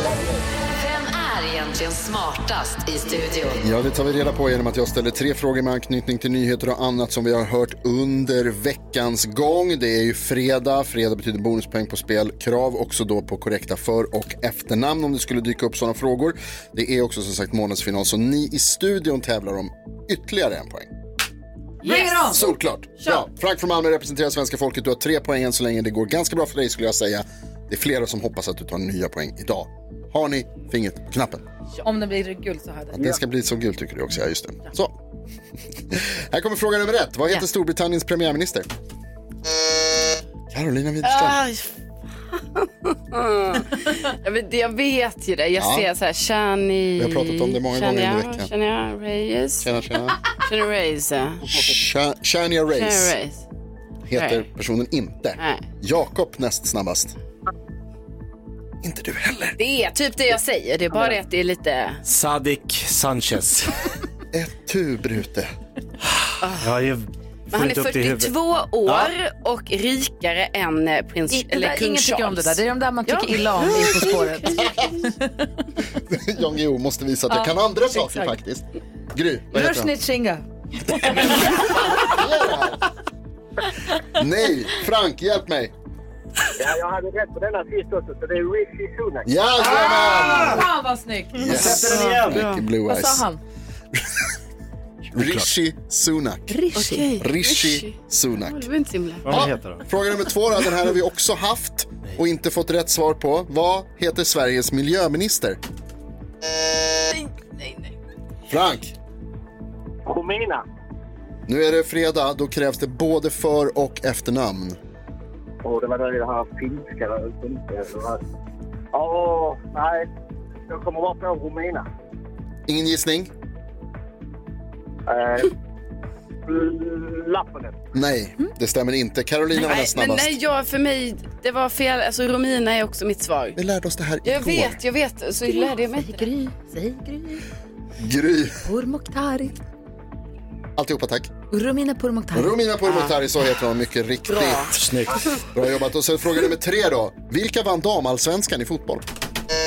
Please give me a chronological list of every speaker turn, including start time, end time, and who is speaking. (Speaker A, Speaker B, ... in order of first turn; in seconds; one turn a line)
Speaker A: 0.7-3.7
Speaker B: 3.6-20.9
Speaker C: 21.8-22.3
Speaker D: 21.8-22.5
Speaker B: 22.3-31.4
Speaker D: 23.0-23.2
Speaker D: 31.8-33.1
Speaker B: 32.9-35.0
Speaker B: 35.9-38.7
Speaker B: 40.5-41.4
Speaker C: 41.0-41.7
Speaker C: 42.3-49.7
Speaker B: 45.5-45.9
Speaker B: 47.0-48.5
Speaker B: 49.6-50.2
Speaker C: 50.3-51.5
Speaker B: 51.4-53.1
Speaker C: 52.7-53.4
Speaker B: 54.1-57.1
Speaker C: 54.1-54.4
Speaker C: 55.4-55.6
Speaker B: 58.8-59.6
Speaker C: 59.6-62.0
Speaker E: 62.0-63.7
Speaker B: 64.3-65.5
Speaker E: 66.2-68.3
Speaker C: 66.4-66.7
Speaker C: 67.5-74.9
Speaker E: 68.8-69.1
Speaker D: 71.3-75.5
Speaker B: 76.0-79.9
Speaker D: 77.9-78.3
Speaker D: 79.5-81.4
Speaker B: 82.0-82.8
Speaker B: 84.1-85.7
Speaker F: 86.6-89.3
Speaker B: 89.2-90.6
Speaker D: 89.6-91.8
Speaker E: 90.2-90.6
Speaker B: 91.3-93.3
Speaker E: 91.4-92.5
Speaker C: 91.5-92.6
Speaker D: 92.9-93.4
Speaker B: 95.1-96.6
Speaker E: 95.2-95.5
Speaker D: 96.5-97.1
Speaker C: 96.7-99.3
Speaker B: 97.2-98.7
Speaker E: 99.2-99.8
Speaker B: 99.3-105.6
Speaker C: 106.9-108.0
Speaker B: 108.5-108.9
Speaker F: 110.0-110.6
Speaker B: 111.5-114.8
Speaker F: 115.6-118.2
Speaker F: 118.9-120.1
Speaker F: 120.7-121.8
Speaker B: 122.7-123.3
Speaker F: 125.1-125.5
Speaker F: 126.5-127.7
Speaker B: 127.9-130.4
Speaker C: 129.5-133.6
Speaker B: 133.6-134.8
Speaker C: 134.2-136.3
Speaker D: 135.5-137.4
Speaker B: 138.0-138.6
Speaker D: 138.6-139.5
Speaker B: 140.8-141.3
Speaker D: 141.5-142.6
Speaker B: 142.3-144.8
Speaker C: 142.8-143.1
Speaker C: 144.3-144.8
Speaker E: 144.7-145.2
Speaker B: 145.5-149.0